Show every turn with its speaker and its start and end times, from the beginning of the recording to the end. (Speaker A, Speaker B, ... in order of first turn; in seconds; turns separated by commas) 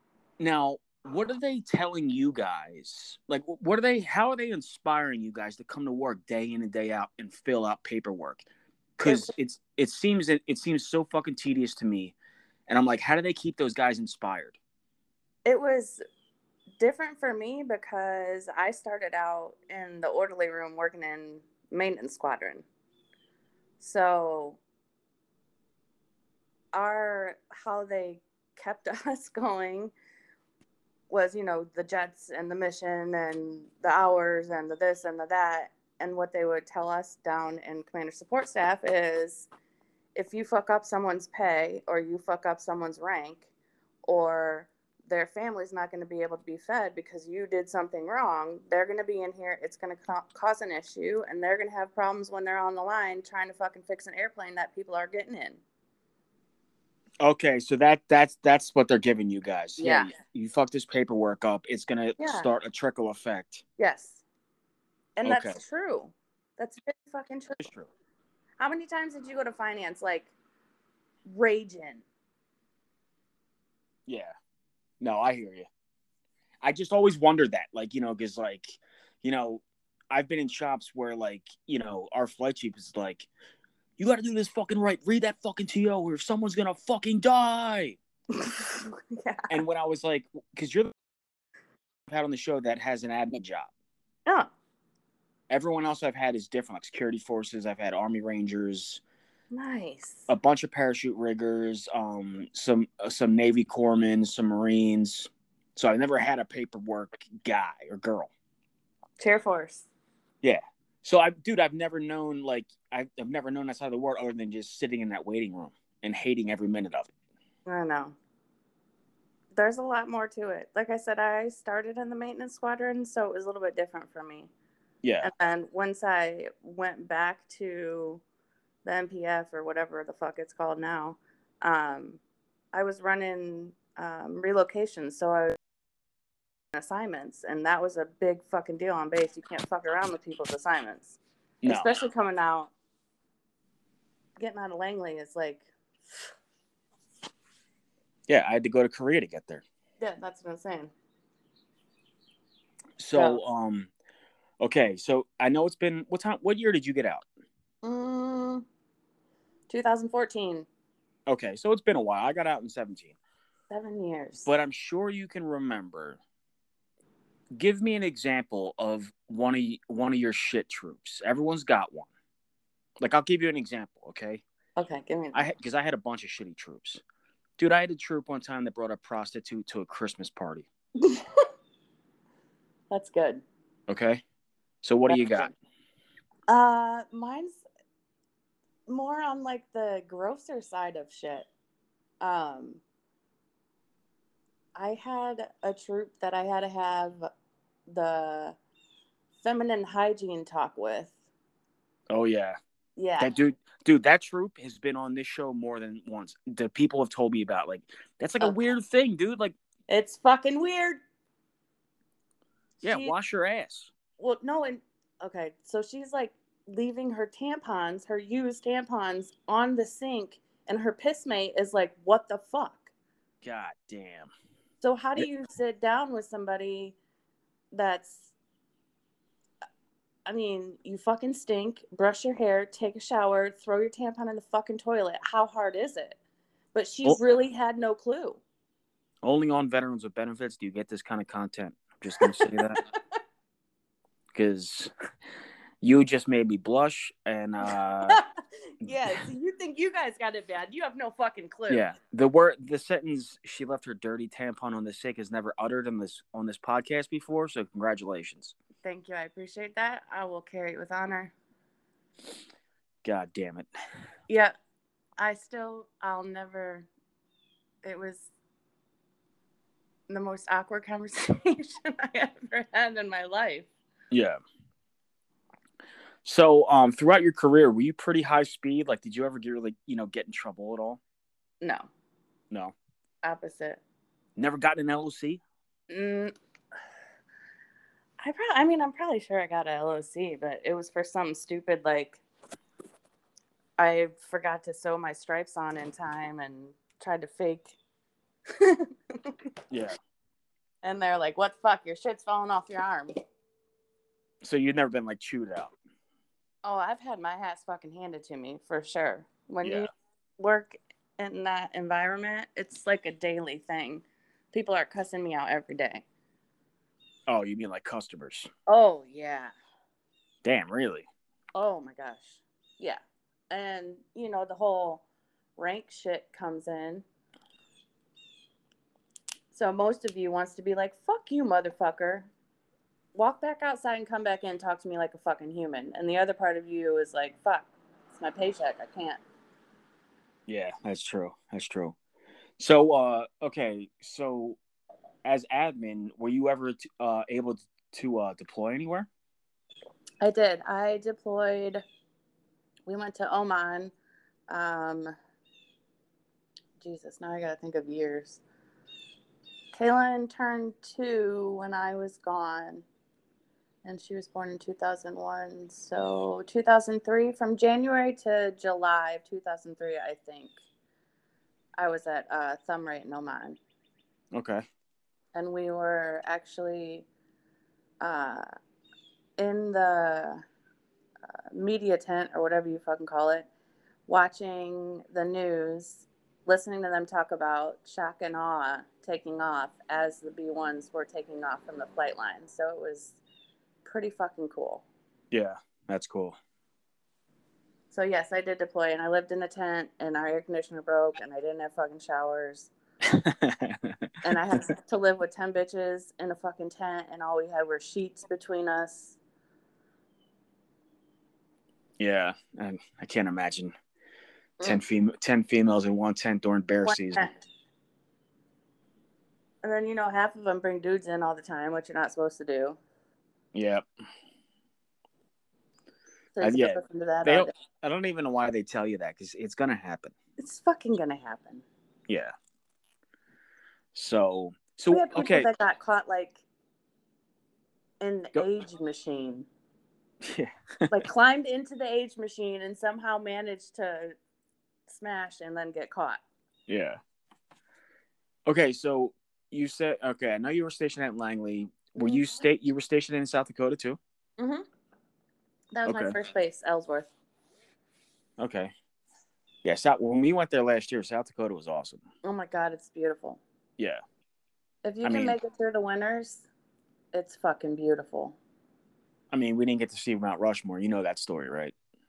Speaker A: 0.4-12.2, Speaker B: 9.1-9.3, Speaker A: 12.7-14.6, Speaker B: 15.4-16.0, Speaker B: 16.8-22.7, Speaker B: 23.8-24.6, Speaker B: 26.7-29.9, Speaker B: 31.1-39.5, Speaker B: 40.1-43.5, Speaker B: 44.1-55.6, Speaker A: 57.2-63.6, Speaker B: 59.8-60.1, Speaker B: 62.2-62.5, Speaker B: 63.8-64.2, Speaker B: 65.2-67.7, Speaker A: 65.2-65.6, Speaker A: 67.6-67.9, Speaker B: 68.6-70.3, Speaker B: 71.3-72.0, Speaker A: 74.1-74.3, Speaker A: 75.0-75.7, Speaker A: 76.6-83.3, Speaker A: 84.0-88.0, Speaker B: 88.4-89.6, Speaker A: 89.5-90.9, Speaker A: 92.1-93.7, Speaker A: 95.5-99.0, Speaker B: 99.5-100.3, Speaker A: 100.3-108.3, Speaker B: 109.2-109.9, Speaker A: 110.4-117.1, Speaker B: 117.7-118.2, Speaker B: 119.5-124.5, Speaker A: 125.0-125.3, Speaker B: 125.2-128.2, Speaker B: 128.8-132.2, Speaker B: 132.7-135.6, Speaker B: 136.7-142.7, Speaker A: 141.6-141.9, Speaker B: 144.4-146.2, Speaker A: 148.3-149.6, Speaker B: 150.0-150.9, Speaker A: 153.0-153.9, Speaker B: 153.1-153.4, Speaker A: 154.6-157.2, Speaker B: 157.8-158.7, Speaker B: 159.7-160.7, Speaker A: 161.3-163.2, Speaker B: 163.7-164.5, Speaker A: 164.5-166.2, Speaker A: 167.6-172.1, Speaker A: 173.0-174.4, Speaker B: 174.8-175.5, Speaker A: 175.3-177.0, Speaker A: 177.6-180.7, Speaker B: 181.0-181.5, Speaker B: 182.9-183.4, Speaker A: 183.9-184.2, Speaker A: 184.8-185.5, Speaker B: 185.1-185.5, Speaker B: 186.5-187.6, Speaker B: 188.9-191.5, Speaker B: 192.2-192.8, Speaker B: 194.8-197.3, Speaker B: 197.9-198.6, Speaker B: 199.4-201.2, Speaker A: 202.1-202.6, Speaker B: 203.0-203.3, Speaker A: 203.2-209.6, Speaker B: 209.9-211.0, Speaker B: 212.8-213.1, Speaker A: 212.8-213.9, Speaker B: 214.2-222.9, Speaker A: 223.4-224.3, Speaker B: 224.8-227.0, Speaker B: 227.7-228.3, Speaker B: 230.3-236.2, Speaker B: 236.7-238.4, Speaker A: 239.2-242.8, Speaker B: 242.2-242.8, Speaker A: 244.3-244.9, Speaker A: 245.8-248.2, Speaker B: 248.8-251.9, Speaker A: 248.8-249.2, Speaker A: 251.7-258.6, Speaker B: 258.8-261.3, Speaker A: 263.0-263.7, Speaker B: 265.2-266.9, Speaker B: 267.8-268.3, Speaker B: 270.1-273.7, Speaker A: 274.1-274.4, Speaker A: 276.2-281.0, Speaker B: 281.6-281.9, Speaker B: 283.2-283.8, Speaker A: 284.4-285.4, Speaker B: 285.9-286.3, Speaker B: 288.2-292.2, Speaker B: 293.8-297.8, Speaker B: 298.6-299.4, Speaker A: 299.7-300.0, Speaker B: 300.8-303.1, Speaker A: 304.4-305.7, Speaker B: 306.6-309.9, Speaker A: 309.6-309.9, Speaker B: 310.4-316.0, Speaker A: 317.3-318.5, Speaker B: 318.7-319.5, Speaker A: 320.4-321.1, Speaker B: 321.6-323.0, Speaker B: 323.5-325.0, Speaker B: 325.6-327.1, Speaker B: 329.5-332.3, Speaker B: 333.1-339.2, Speaker A: 340.5-341.9, Speaker A: 342.6-344.6, Speaker A: 345.2-349.1, Speaker B: 350.2-351.8, Speaker B: 352.9-353.9, Speaker B: 354.5-355.1, Speaker B: 356.8-358.4, Speaker B: 359.7-362.9, Speaker B: 363.9-370.6, Speaker B: 371.8-373.6, Speaker A: 374.3-374.6, Speaker B: 375.4-377.1, Speaker B: 378.0-378.5, Speaker B: 379.4-380.4, Speaker B: 381.5-383.5, Speaker B: 384.1-393.2, Speaker B: 393.9-394.8, Speaker A: 395.3-396.4, Speaker B: 397.9-402.7, Speaker A: 403.1-404.6, Speaker B: 404.2-409.2, Speaker A: 412.0-413.7, Speaker A: 414.6-417.3, Speaker B: 416.9-417.4, Speaker B: 419.6-422.8, Speaker A: 423.5-423.8, Speaker B: 426.4-427.5, Speaker A: 426.4-430.1, Speaker B: 430.4-431.6, Speaker A: 432.1-432.3, Speaker A: 433.9-435.5, Speaker B: 434.9-436.4, Speaker B: 438.0-439.5, Speaker A: 440.2-441.1, Speaker B: 440.9-444.2, Speaker B: 444.9-446.2, Speaker A: 446.7-447.0, Speaker A: 448.5-454.0, Speaker B: 452.0-452.3, Speaker B: 454.4-454.6, Speaker B: 455.8-457.1, Speaker A: 455.9-456.1, Speaker A: 458.4-458.7, Speaker A: 459.6-462.0, Speaker B: 462.2-463.4, Speaker B: 464.8-466.5, Speaker A: 465.0-465.4, Speaker B: 467.1-468.4, Speaker A: 469.3-471.7